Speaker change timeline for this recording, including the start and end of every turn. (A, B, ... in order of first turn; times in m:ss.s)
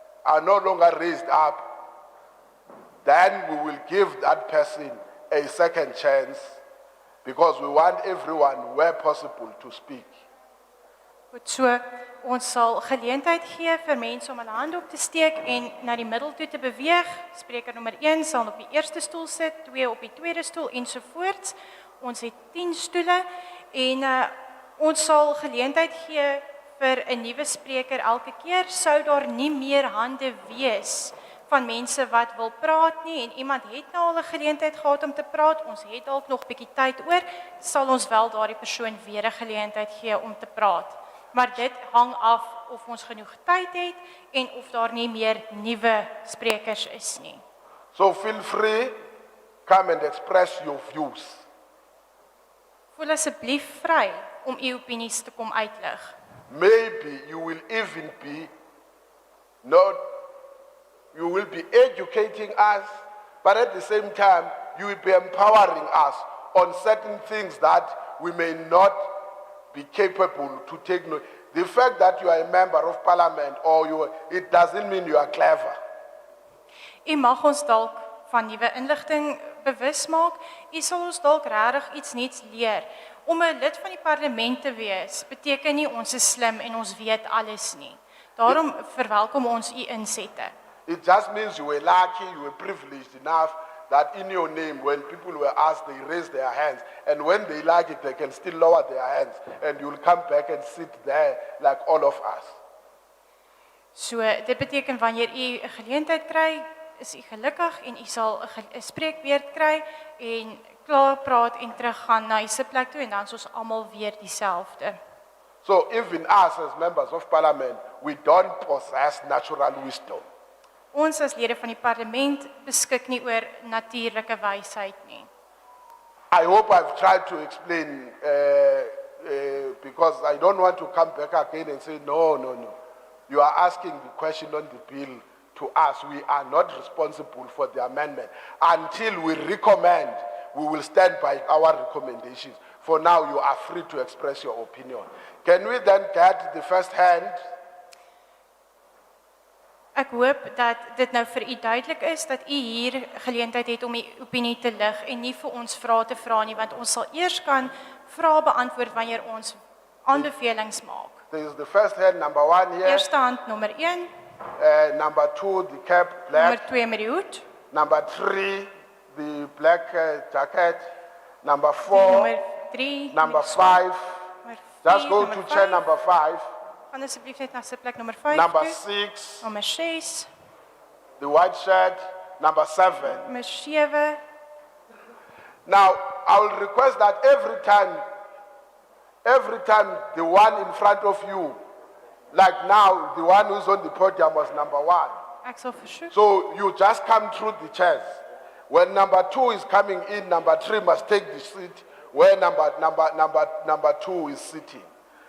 0:00.2-0:01.7 A
0:03.0-0:06.6 A
0:07.2-0:10.1 A
0:11.3-0:47.4 B
0:47.9-0:49.0 A
0:49.7-0:51.4 A
0:53.0-0:56.2 B
0:56.5-0:58.5 A
0:59.6-1:00.0 A
1:01.1-1:02.9 A
1:03.4-1:09.1 A
1:09.7-1:15.8 A
1:17.0-1:30.5 B
1:30.9-1:42.6 A
1:44.0-1:55.0 B
1:55.6-2:00.2 A
2:00.9-2:05.3 B
2:06.3-2:12.8 A
2:13.3-2:27.4 A
2:30.0-2:41.2 B
2:41.3-2:43.1 A
2:42.8-2:44.1 B
2:44.6-2:46.6 A
2:46.3-2:47.4 B
2:47.7-2:50.9 A
2:51.4-2:52.3 A
2:51.9-2:53.8 B
2:53.1-2:54.2 A
2:54.4-2:55.8 B
2:54.8-2:56.5 A
2:56.9-2:58.8 B
2:58.3-2:59.5 A
2:59.4-3:00.3 B
3:01.2-3:03.2 A
3:03.1-3:04.2 B
3:05.7-3:08.0 A
3:09.2-3:11.6 A
3:12.3-3:15.2 A
3:15.4-3:16.1 B
3:16.1-3:18.0 A
3:18.7-3:24.9 A